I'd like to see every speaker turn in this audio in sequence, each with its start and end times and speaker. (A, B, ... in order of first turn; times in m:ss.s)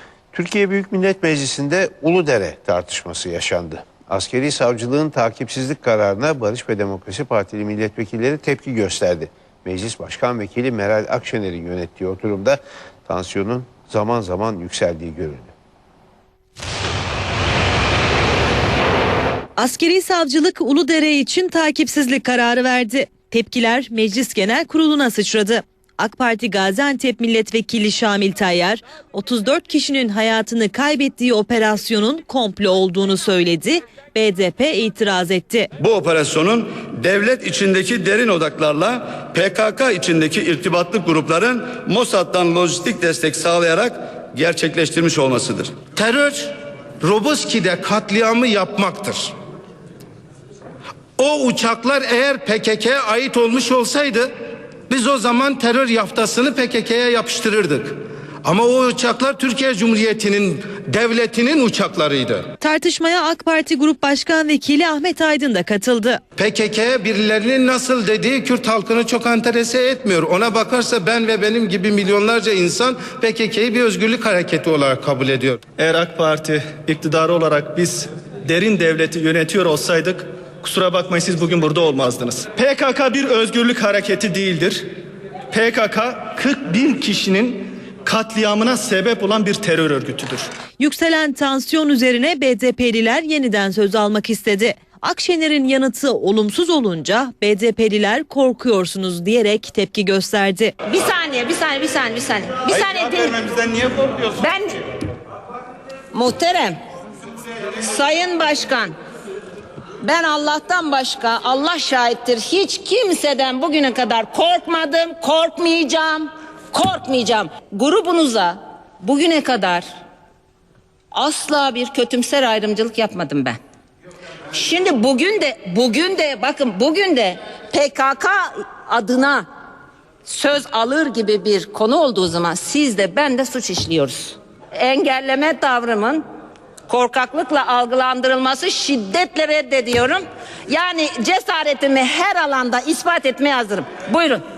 0:00.3-0:15.5 A
0:19.6-0:35.7 B
0:35.8-0:45.8 C
0:45.9-0:46.5 D
0:47.0-0:49.3 D
0:51.2-0:54.3 D
0:54.9-1:02.4 D
1:02.6-1:06.2 B
1:06.4-1:15.6 D
1:15.8-1:24.8 E
1:25.5-1:30.5 E
1:30.8-1:40.7 B
1:40.9-1:44.8 F
1:46.1-1:46.8 F
1:47.8-1:48.9 F
1:50.0-1:59.8 F
2:01.1-2:03.6 F
2:04.5-2:09.5 F
2:10.2-2:16.2 F
2:16.9-2:24.4 F